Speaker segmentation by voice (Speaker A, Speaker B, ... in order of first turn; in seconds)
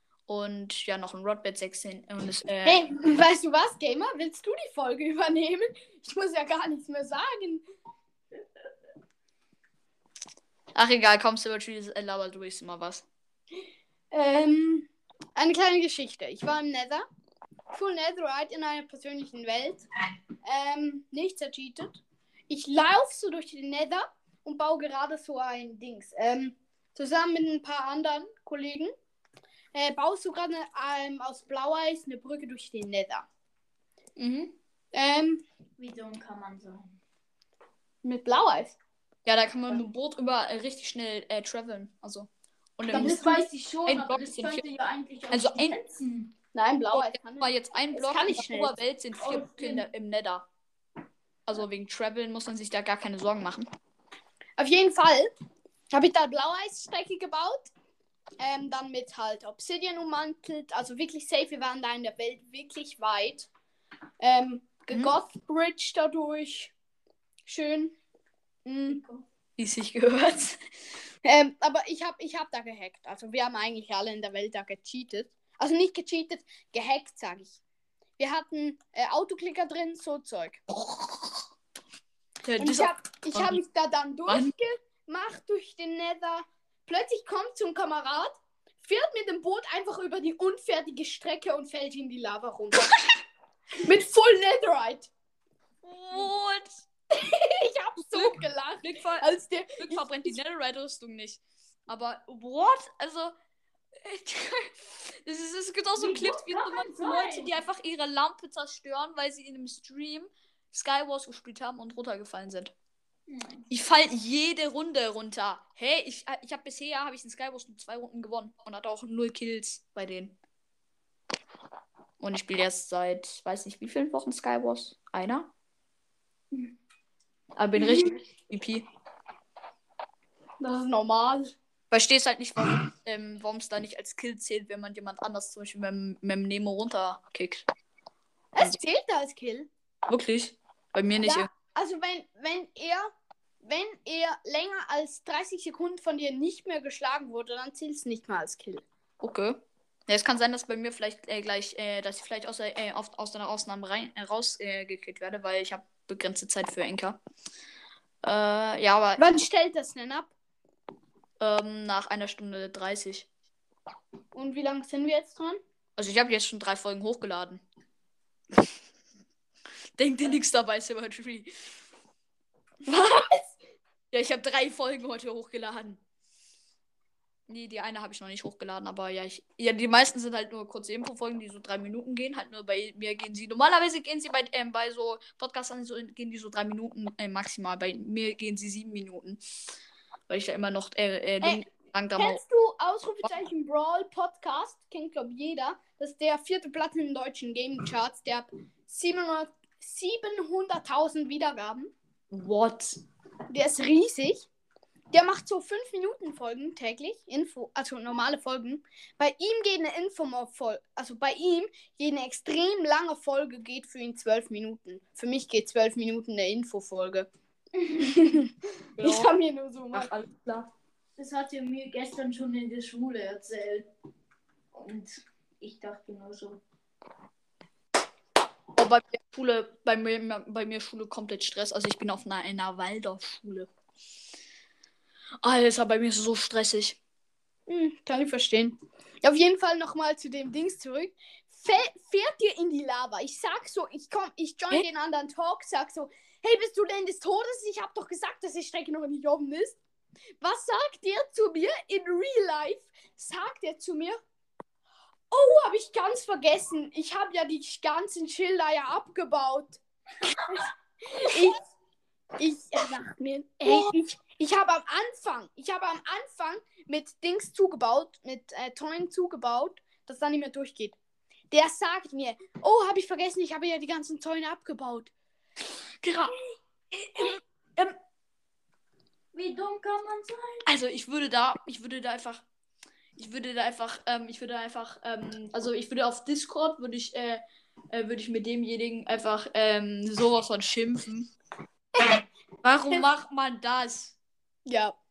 Speaker A: 0.3-2.8, 10.7-13.1, 34.2-34.5, 39.2-43.3, 43.9-44.6, 45.3-45.8, 46.9-50.5, 51.5-53.7, 64.9-65.1, 69.6-70.6, 80.7-81.4, 82.4-83.6, 84.3-84.5, 95.8-96.8, 98.0-99.2, 99.8-103.3, 104.0-112.7, 113.7-120.3, 122.2-125.5, 127.5-128.9, 131.9-137.7, 140.1-141.5, 149.2-157.2, 158.2-159.2, 161.4-163.3, 166.0-167.6, 170.0-171.6, 174.1-176.0, 177.5-189.4, 190.3-192.4, 202.3-203.0, 219.0-219.3, 219.9-220.7, 228.7-233.7, 235.4-237.0, 276.0-276.3, 276.9-277.9, 280.6-282.4, 283.2-287.4, 287.9-291.3, 292.6-294.1
Speaker B: 2.6-7.6, 14.1-17.0, 17.7-19.8, 20.4-28.9, 29.7-33.3, 34.9-35.4, 38.0-38.8, 42.9-43.4, 46.5-48.8, 54.6-55.3, 55.9-57.7, 58.4-63.5, 64.2-66.7, 67.5-68.0, 68.7-69.0, 71.2-77.6, 78.2-80.6, 82.6-92.9, 93.8-95.1, 97.1-100.3, 130.6-131.5, 138.5-139.7, 141.2-143.1, 143.6-148.8, 159.2-160.3, 164.3-165.6, 172.9-173.6, 192.2-201.9, 203.5-204.5, 205.1-217.3, 217.9-220.1, 237.7-249.8, 250.4-254.2, 255.3-261.6, 262.4-271.0, 271.5-275.1, 294.6-294.9
Speaker C: 35.8-36.9, 42.9-46.3, 49.2-49.8, 68.9-69.2, 106.0-107.5, 113.3-113.7, 221.2-223.9, 224.7-226.6, 279.3-280.6